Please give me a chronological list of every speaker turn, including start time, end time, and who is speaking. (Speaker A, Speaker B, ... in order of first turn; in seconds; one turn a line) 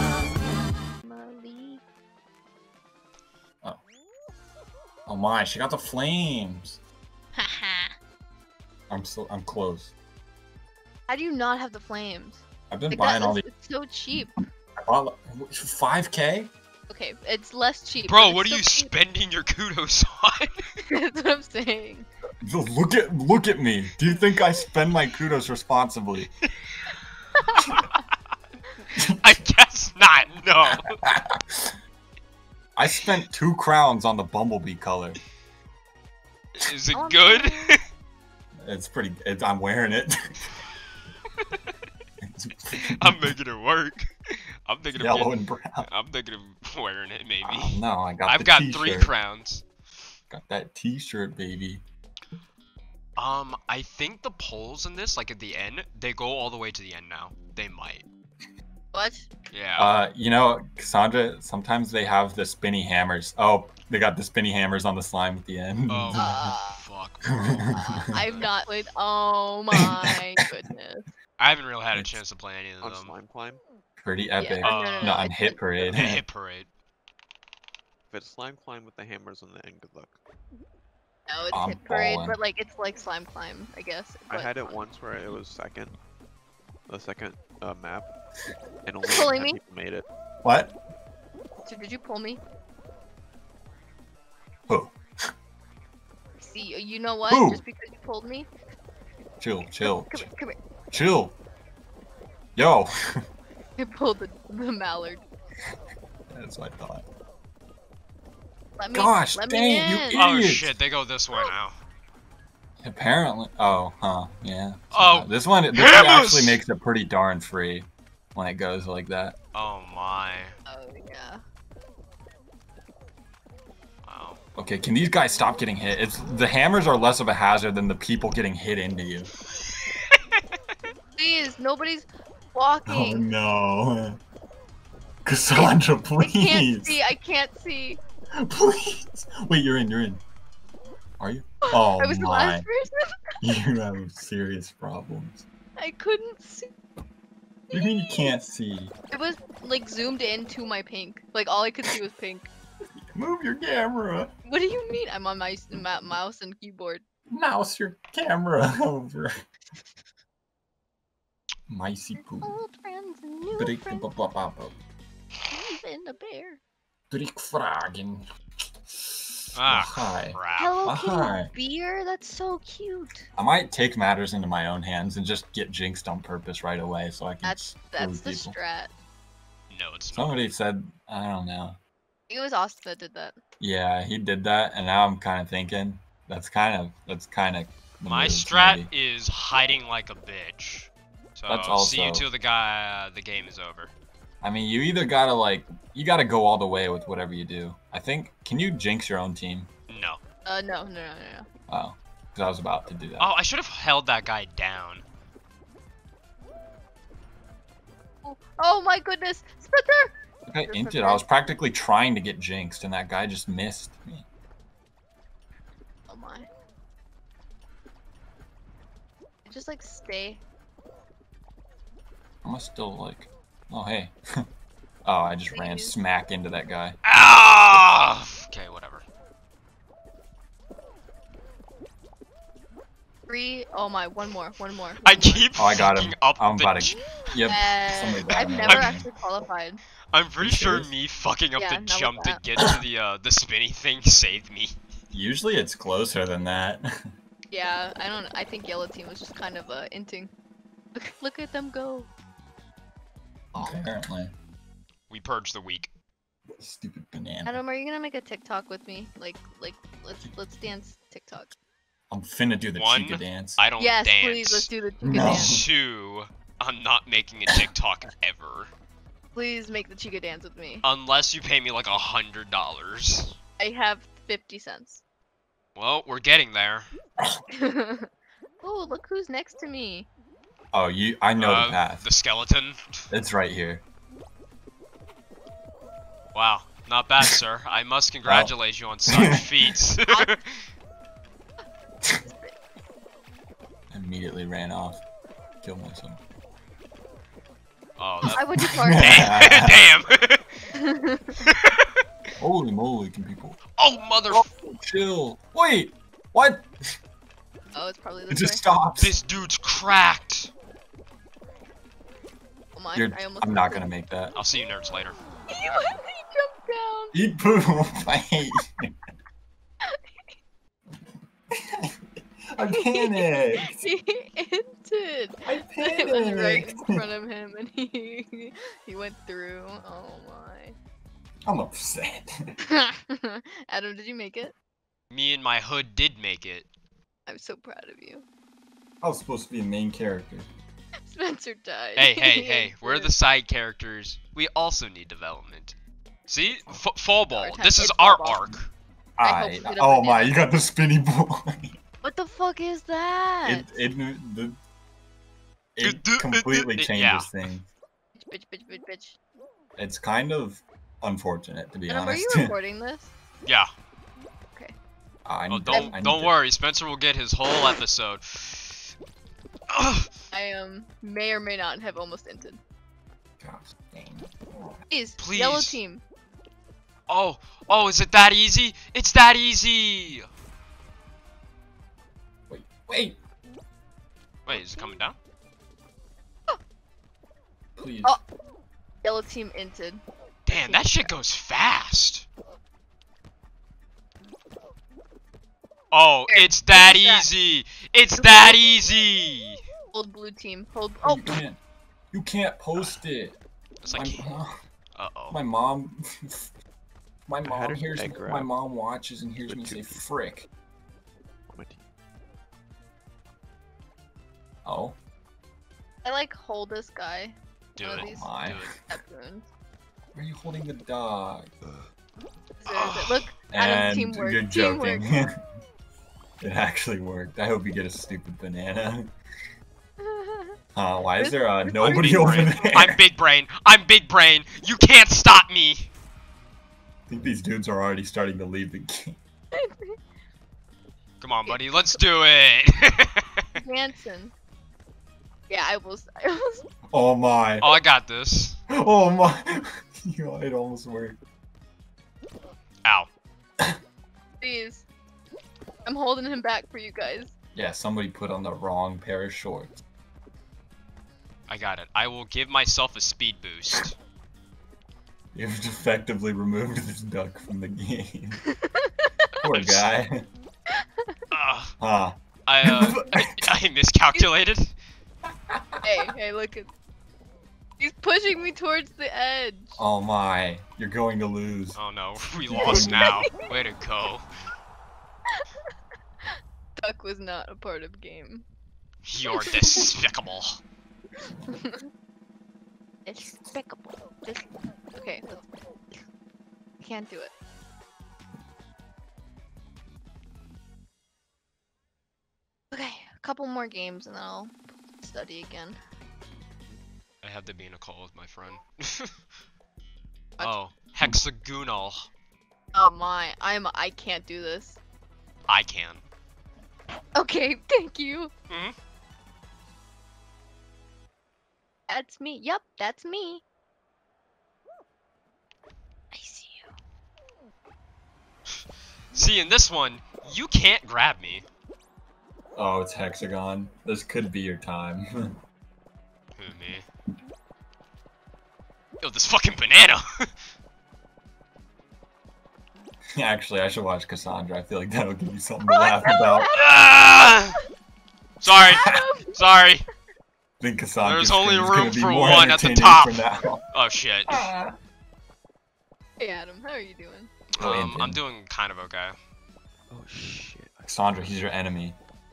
Speaker A: 1.0-1.8
Speaker B: 5.1-6.8
Speaker A: 7.3-7.9
Speaker B: 8.9-9.9
Speaker A: 11.1-14.4
Speaker B: 12.7-13.5
Speaker B: 14.8-16.5
Speaker A: 16.9-18.9
Speaker C: 18.0-20.6
Speaker A: 20.8-22.1
Speaker B: 22.4-26.3
Speaker A: 27.4-27.8
Speaker B: 29.0-29.4
Speaker C: 29.2-31.0
Speaker B: 31.0-31.8
Speaker B: 32.8-35.2
Speaker C: 36.5-37.8
Speaker A: 36.9-37.7
Speaker B: 38.6-40.5
Speaker C: 41.4-41.7
Speaker B: 42.3-43.3
Speaker C: 42.8-49.6
Speaker B: 44.9-45.9
Speaker B: 47.4-49.1
Speaker B: 50.3-51.8
Speaker C: 53.2-58.0
Speaker A: 58.9-59.3
Speaker C: 59.5-59.9
Speaker B: 59.8-66.4
Speaker C: 65.9-68.5
Speaker A: 66.1-66.8
Speaker B: 67.2-68.0
Speaker A: 67.7-71.1
Speaker C: 71.4-73.1
Speaker B: 71.9-72.2
Speaker D: 72.8-73.6
Speaker B: 74.0-76.2
Speaker A: 74.4-75.6
Speaker C: 74.6-75.2
Speaker C: 75.8-76.7
Speaker D: 78.1-80.2
Speaker A: 81.3-84.8
Speaker B: 81.5-82.4
Speaker D: 84.3-86.0
Speaker D: 86.9-88.1
Speaker D: 88.8-90.0
Speaker A: 89.1-89.6
Speaker B: 90.4-90.7
Speaker A: 91.7-92.4
Speaker B: 94.7-94.9
Speaker A: 96.4-98.5
Speaker B: 97.3-97.6
Speaker B: 99.4-100.3
Speaker A: 99.8-100.6
Speaker B: 100.9-101.4
Speaker B: 102.5-102.9
Speaker A: 103.8-105.2
Speaker B: 106.3-107.0
Speaker A: 108.8-110.2
Speaker B: 108.9-110.7
Speaker C: 110.1-111.8
Speaker B: 112.8-119.4
Speaker C: 114.9-116.6
Speaker C: 119.5-120.5
Speaker A: 120.7-121.4
Speaker C: 124.0-124.4
Speaker B: 124.5-129.3
Speaker C: 129.7-130.4
Speaker A: 131.2-133.3
Speaker B: 132.9-134.2
Speaker B: 135.2-137.0
Speaker A: 135.5-138.0
Speaker B: 138.4-140.2
Speaker B: 141.2-142.7
Speaker A: 141.7-143.2
Speaker B: 143.4-145.4
Speaker A: 145.8-146.7
Speaker A: 147.7-148.3
Speaker B: 147.7-148.9
Speaker A: 149.1-152.5
Speaker B: 153.2-154.3
Speaker A: 154.4-157.0
Speaker B: 157.3-159.3
Speaker B: 161.7-162.5
Speaker A: 162.2-164.1
Speaker B: 163.6-164.8
Speaker A: 165.5-166.6
Speaker B: 167.1-168.2
Speaker B: 168.9-171.5
Speaker C: 169.6-170.8
Speaker A: 170.6-173.3
Speaker B: 173.4-178.6
Speaker A: 177.4-178.9
Speaker C: 179.7-180.4
Speaker B: 180.1-181.8
Speaker A: 182.3-183.4
Speaker B: 183.6-188.9
Speaker C: 188.1-193.9
Speaker B: 191.5-192.3
Speaker B: 194.4-199.7
Speaker C: 199.9-200.2
Speaker A: 200.5-201.5
Speaker B: 201.7-203.3
Speaker C: 203.2-205.1
Speaker A: 208.2-210.1
Speaker B: 210.5-214.3
Speaker A: 210.6-211.2
Speaker A: 216.1-216.5
Speaker A: 219.5-220.4
Speaker B: 222.4-224.2
Speaker B: 225.1-227.0
Speaker A: 225.5-226.0
Speaker C: 227.1-229.1
Speaker A: 233.3-235.5
Speaker C: 235.0-237.0
Speaker B: 235.6-239.1
Speaker A: 237.5-239.8
Speaker C: 238.6-239.0
Speaker C: 240.1-244.8
Speaker B: 240.4-240.9
Speaker A: 241.6-242.4
Speaker B: 245.1-246.9
Speaker A: 247.5-250.3
Speaker A: 250.9-252.1
Speaker B: 253.5-254.3
Speaker A: 253.6-254.0
Speaker C: 255.1-255.9
Speaker B: 256.6-257.6
Speaker A: 257.4-261.6
Speaker B: 262.1-263.6
Speaker C: 262.8-268.7
Speaker A: 263.8-265.6
Speaker B: 265.1-265.6
Speaker A: 269.4-270.8
Speaker C: 270.8-273.4
Speaker A: 273.6-275.0
Speaker C: 275.8-276.9
Speaker A: 277.5-278.1
Speaker A: 278.6-280.1
Speaker B: 280.7-282.1
Speaker C: 281.4-283.0
Speaker B: 283.1-283.8
Speaker C: 286.3-290.4
Speaker B: 288.2-288.5
Speaker A: 290.1-290.4
Speaker A: 292.2-292.5
Speaker B: 293.9-295.0
Speaker B: 295.6-296.2
Speaker C: 298.0-298.4
Speaker B: 298.2-299.9
Speaker A: 298.4-299.3
Speaker C: 298.9-300.6
Speaker A: 300.7-301.4
Speaker C: 301.4-301.9
Speaker B: 302.4-303.6
Speaker C: 303.7-304.5
Speaker B: 304.3-306.7
Speaker A: 307.7-308.6
Speaker B: 308.3-309.1
Speaker C: 309.0-310.5
Speaker A: 312.8-313.9
Speaker B: 312.9-314.4
Speaker C: 314.4-315.2
Speaker A: 315.5-317.1
Speaker B: 317.1-318.9
Speaker B: 321.5-322.0
Speaker B: 322.5-323.9
Speaker A: 322.7-330.8
Speaker B: 325.4-327.1
Speaker B: 331.4-332.5
Speaker A: 332.7-334.5
Speaker C: 335.1-336.7
Speaker A: 337.2-338.2
Speaker B: 339.0-340.5
Speaker A: 341.1-343.1
Speaker C: 341.9-345.8
Speaker C: 346.3-348.7
Speaker A: 347.3-348.6
Speaker B: 349.2-351.8
Speaker A: 349.2-350.4
Speaker A: 352.0-353.7
Speaker B: 353.4-354.6
Speaker B: 355.8-357.7
Speaker C: 355.8-357.3
Speaker A: 358.1-359.2
Speaker B: 359.8-362.6
Speaker A: 361.9-363.1
Speaker B: 365.2-366.4
Speaker C: 365.5-368.9
Speaker A: 365.7-365.9
Speaker C: 369.7-370.1
Speaker A: 370.3-372.6
Speaker B: 373.4-374.8
Speaker A: 374.9-376.0
Speaker C: 375.2-375.8
Speaker C: 377.1-380.3
Speaker B: 382.5-383.2
Speaker C: 384.4-385.2
Speaker A: 384.5-385.0
Speaker B: 387.8-388.1
Speaker A: 389.0-391.1
Speaker C: 390.4-392.2
Speaker C: 395.9-399.6
Speaker A: 396.3-397.3
Speaker A: 398.2-398.6
Speaker A: 399.9-401.4
Speaker B: 401.0-401.6
Speaker B: 402.1-403.4
Speaker C: 402.8-403.0
Speaker C: 403.8-404.3
Speaker B: 403.9-404.6
Speaker C: 404.9-405.4
Speaker B: 405.3-406.5
Speaker B: 407.3-410.5
Speaker D: 407.4-408.6
Speaker D: 409.4-410.1
Speaker D: 411.5-411.8
Speaker B: 414.6-415.0
Speaker A: 416.0-419.5
Speaker C: 417.8-418.7
Speaker B: 417.9-418.8
Speaker B: 420.1-421.5
Speaker D: 421.6-421.9
Speaker A: 422.6-425.1
Speaker C: 422.7-423.3
Speaker B: 423.5-425.3
Speaker B: 426.4-429.1
Speaker A: 430.0-430.6
Speaker B: 430.8-433.0
Speaker A: 431.2-432.6
Speaker C: 431.8-435.9
Speaker B: 437.1-439.2
Speaker A: 439.6-439.9
Speaker C: 441.2-443.4
Speaker A: 441.4-442.0
Speaker A: 443.6-444.3
Speaker A: 445.5-446.6
Speaker B: 446.9-447.7
Speaker C: 447.6-448.6
Speaker B: 448.7-451.2
Speaker C: 452.9-453.1
Speaker A: 454.4-454.9
Speaker A: 455.9-457.3
Speaker B: 457.6-459.8
Speaker C: 461.5-463.9
Speaker B: 465.3-468.4
Speaker A: 468.5-469.2
Speaker B: 469.4-470.3
Speaker C: 469.4-469.9
Speaker C: 471.3-471.7
Speaker B: 471.8-473.3
Speaker C: 472.4-474.8
Speaker B: 475.5-475.8
Speaker A: 475.8-476.7
Speaker A: 477.8-479.8
Speaker B: 479.8-481.8
Speaker C: 481.8-484.3
Speaker B: 482.5-483.1
Speaker A: 482.6-483.2
Speaker A: 486.8-488.4
Speaker C: 489.1-490.6
Speaker A: 489.4-489.8
Speaker A: 491.5-491.8
Speaker A: 493.1-495.4
Speaker A: 496.8-497.3
Speaker A: 502.7-505.8
Speaker C: 507.2-509.1
Speaker C: 510.4-512.1
Speaker A: 512.7-514.8
Speaker C: 515.5-516.0
Speaker A: 517.1-518.3
Speaker C: 518.5-518.8
Speaker A: 521.9-523.4
Speaker A: 526.1-526.7
Speaker C: 529.1-531.4
Speaker B: 532.5-535.1
Speaker C: 536.4-536.9
Speaker C: 539.0-540.3
Speaker B: 543.1-546.5
Speaker A: 545.7-547.6
Speaker C: 546.6-547.5
Speaker C: 548.4-549.8
Speaker B: 548.4-549.0
Speaker A: 548.7-549.3
Speaker B: 550.6-553.6
Speaker C: 551.0-554.5
Speaker B: 554.3-554.7
Speaker A: 556.2-557.3
Speaker C: 557.5-559.1
Speaker B: 557.6-558.2
Speaker D: 559.9-561.4
Speaker B: 560.8-561.9